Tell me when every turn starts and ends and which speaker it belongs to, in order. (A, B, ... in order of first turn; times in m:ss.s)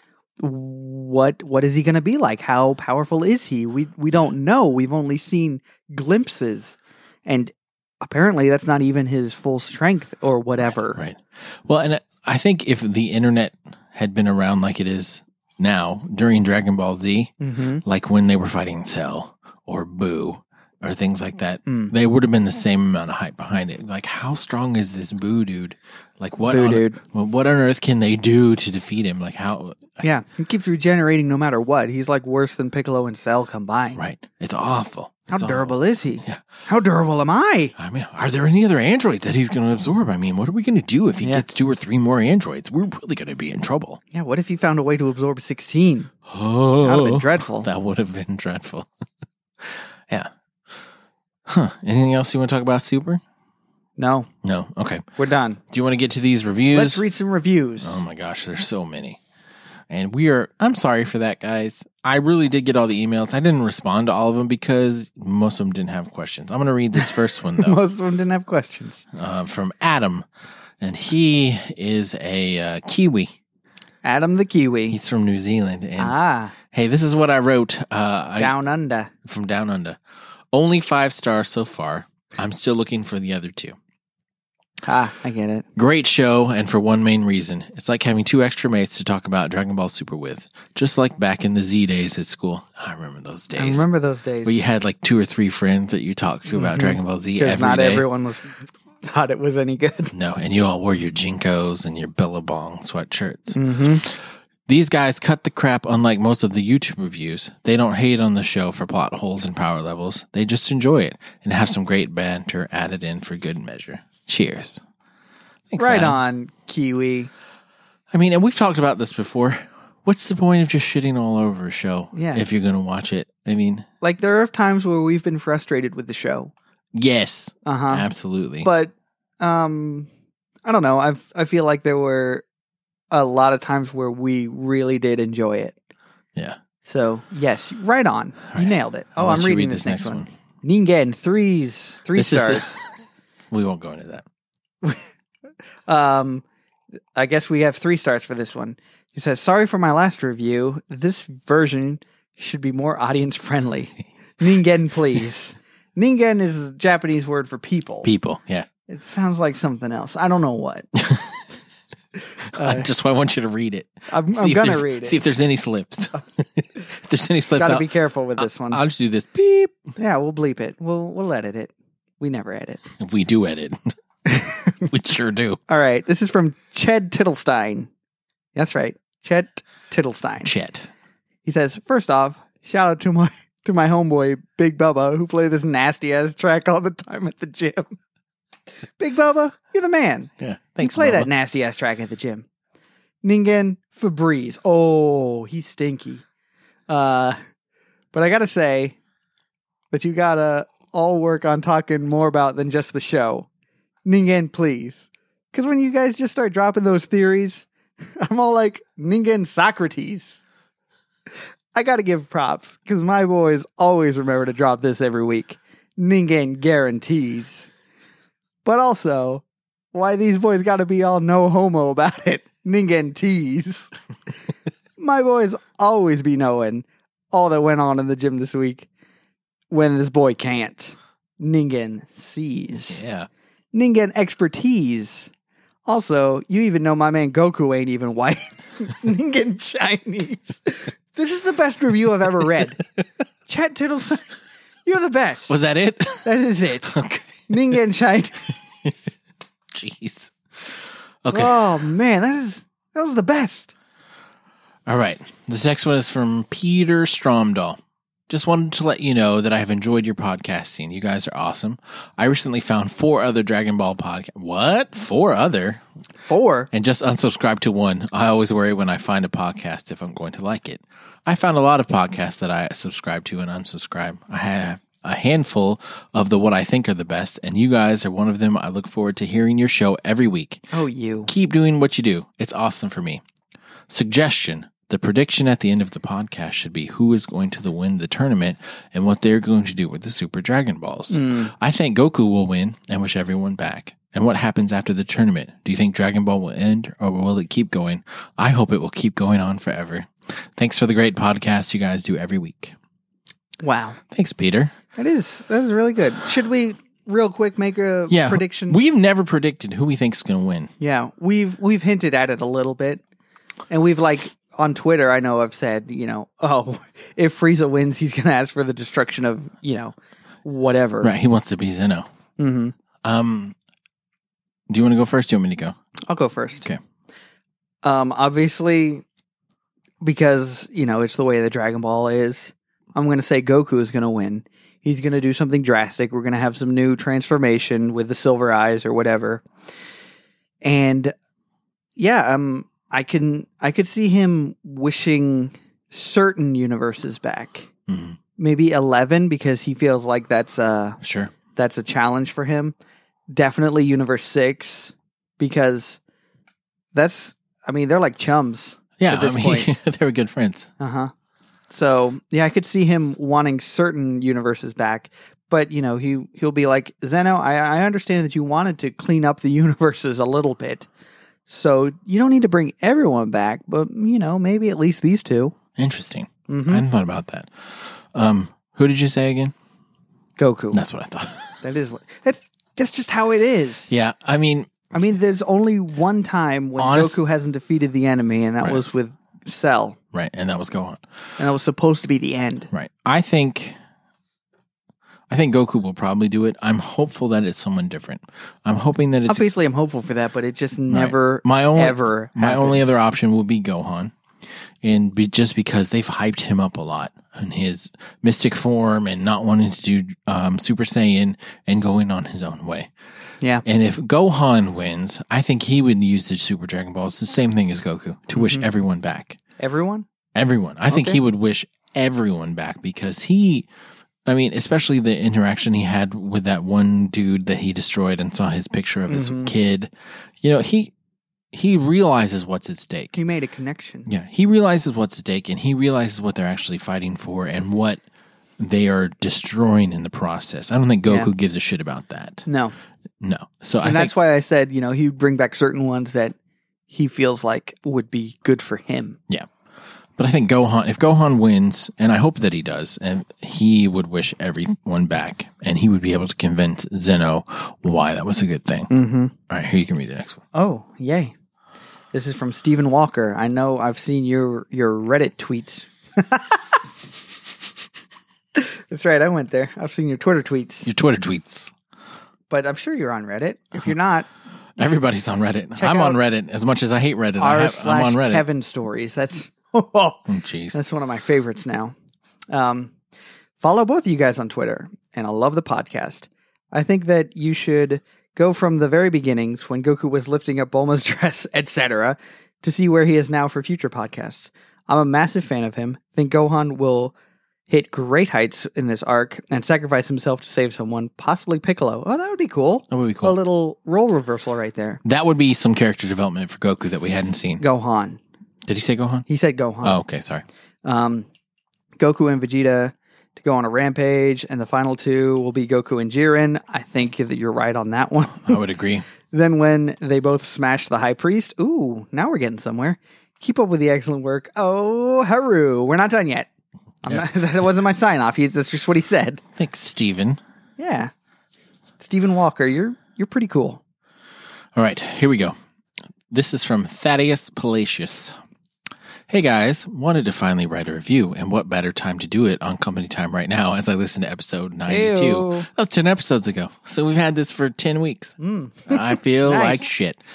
0:00.4-0:11.0 A
0:10.6-0:30.0 B
0:17.4-0:17.8 A
0:21.7-0:21.9 A
0:26.5-0:27.0 A
0:30.0-0:34.0 A
0:34.0-0:36.4 B
0:35.3-0:37.7 A
0:37.8-0:44.0 B
0:44.1-0:46.1 A
0:46.2-0:48.9 B
0:46.8-0:47.7 A
0:49.6-0:50.3 B
0:51.4-0:53.2 B
0:54.0-0:54.3 A
0:54.4-0:55.1 B
0:55.2-0:55.6 A
0:55.7-0:57.0 B
0:56.7-0:58.0 A
0:57.8-0:59.2 B
0:59.9-1:07.8 B
1:07.6-1:09.0 A
1:09.1-1:10.2 B
1:10.8-1:13.3 B
1:14.0-1:15.0 A
1:14.9-1:18.5 B
1:16.0-1:16.5 A
1:18.4-1:19.1 A
1:19.2-1:20.0 B
1:20.5-1:23.8 B
1:24.8-1:25.6 A
1:25.8-1:33.8 B
1:33.6-1:34.6 A
1:34.4-1:38.0 B
1:36.5-1:40.1 A
1:40.1-1:54.8 B
1:43.5-1:44.0 A
1:55.7-1:56.2 B
1:55.8-1:57.3 A
1:58.1-2:03.8 B
2:02.1-2:02.4 A
2:04.0-2:06.5 A
2:06.9-2:08.7 B
2:07.6-2:08.1 A
2:08.6-2:10.1 A
2:10.6-2:12.4 A
2:13.1-2:15.8 A
2:16.8-2:22.8 A
2:18.5-2:20.3 B
2:22.1-2:22.8 B
2:23.5-2:24.2 B
2:25.9-2:26.4 A
2:27.2-2:38.1 A
2:38.0-2:38.7 B
2:38.9-2:40.9 A
2:41.0-2:41.3 B
2:42.5-2:47.9 B
2:42.5-2:42.9 A
2:44.1-2:45.2 A
2:47.5-2:48.8 A
2:48.4-2:49.8 B
2:50.0-2:52.8 A
2:53.0-2:53.9 B
2:54.2-2:54.9 A
2:54.9-2:55.6 B
2:55.7-2:57.9 A
2:58.6-3:00.5 A
3:00.4-3:00.9 B
3:01.4-3:07.9 A
3:09.0-3:12.4 A
3:10.4-3:11.3 B
3:13.2-3:16.2 A
3:16.9-3:17.4 A
3:18.1-3:19.0 A
3:19.9-3:23.5 A
3:24.0-3:27.7 A
3:28.2-3:30.4 A
3:31.7-3:37.7 A
3:38.6-3:43.9 A
3:45.0-3:48.9 A
3:49.7-3:53.0 A
3:52.9-3:53.3 B
3:53.7-3:55.3 A
3:55.8-4:02.8 A
4:03.5-4:04.2 A
4:04.8-4:05.5 A
4:05.5-4:06.3 B
4:06.2-4:08.6 A
4:06.9-4:07.5 B
4:09.7-4:11.7 B
4:11.3-4:13.7 A
4:14.8-4:17.8 B
4:18.3-4:25.8 B
4:26.2-4:26.7 A
4:26.7-4:40.7 B
4:40.7-4:41.3 A
4:41.3-4:43.2 B
4:43.9-5:02.7 B
4:51.1-4:51.5 A
5:03.6-5:04.0 A
5:04.1-5:04.7 B
5:05.0-5:08.8 A
5:08.1-5:10.7 B
5:10.8-5:13.0 A
5:13.7-5:21.1 A
5:21.0-5:22.0 B
5:22.4-5:22.7 A
5:23.0-5:23.5 B
5:24.7-5:25.8 B
5:26.1-5:26.6 A
5:27.8-5:29.0 A
5:30.0-5:39.4 A
5:40.6-5:41.1 A
5:42.0-5:47.7 A
5:47.9-5:48.2 B
5:48.4-5:51.0 A
5:51.0-5:51.3 B
5:51.5-5:52.7 A
5:53.3-5:56.0 A
5:56.9-5:59.7 A
5:59.0-6:00.7 B
6:00.8-6:01.1 A
6:01.7-6:10.9 A
6:11.5-6:15.5 A
6:15.8-6:19.5 B
6:16.5-6:16.8 A
6:20.4-6:20.8 A
6:20.7-6:21.6 B
6:21.6-6:23.9 A
6:23.9-6:24.7 B
6:24.9-6:30.0 A
6:26.8-6:27.2 B
6:30.1-6:31.0 B
6:31.4-6:32.7 A
6:32.7-6:33.8 B
6:35.3-6:39.4 B
6:39.3-6:43.0 A
6:40.9-6:44.1 B
6:44.8-6:52.9 B
6:53.6-6:59.4 B
6:58.4-6:58.7 A
6:59.6-7:00.0 A
7:00.3-7:03.7 B
7:00.9-7:01.2 A
7:04.2-7:09.9 B
7:09.1-7:09.5 A
7:10.4-7:10.9 B
7:11.5-7:13.2 B
7:13.1-7:14.1 A
7:14.0-7:18.0 B
7:18.6-7:22.4 B
7:21.0-7:21.3 A
7:22.4-7:22.7 A
7:23.2-7:24.1 B
7:23.8-7:26.3 A
7:26.9-7:29.2 A
7:30.2-7:38.9 B
7:38.9-7:39.3 A
7:39.5-7:40.4 B
7:40.5-7:41.3 A
7:42.1-7:46.8 A
7:48.5-7:50.9 A
7:50.8-7:51.7 B
7:52.5-7:54.3 A
7:54.8-7:58.4 B
7:55.8-7:56.2 A
7:57.4-8:01.9 A
8:00.3-8:00.8 B
8:02.5-8:02.9 A
8:03.6-8:17.1 A
8:17.7-8:25.0 A
8:22.9-8:23.4 B
8:25.0-8:27.6 B
8:27.6-8:28.2 A
8:28.6-8:29.2 B
8:29.3-8:30.0 A
8:29.8-8:30.4 B
8:30.8-8:31.3 A
8:32.0-8:38.6 A
8:38.4-8:39.0 B
8:39.3-8:46.5 A
8:47.0-8:49.4 A
8:49.6-8:50.4 B
8:50.8-8:51.1 A
8:52.0-8:53.8 A
8:54.8-8:55.5 B
8:56.3-8:58.4 B
8:59.3-9:08.4 B
9:04.9-9:05.7 A
9:08.4-9:09.8 A
9:08.9-9:10.2 B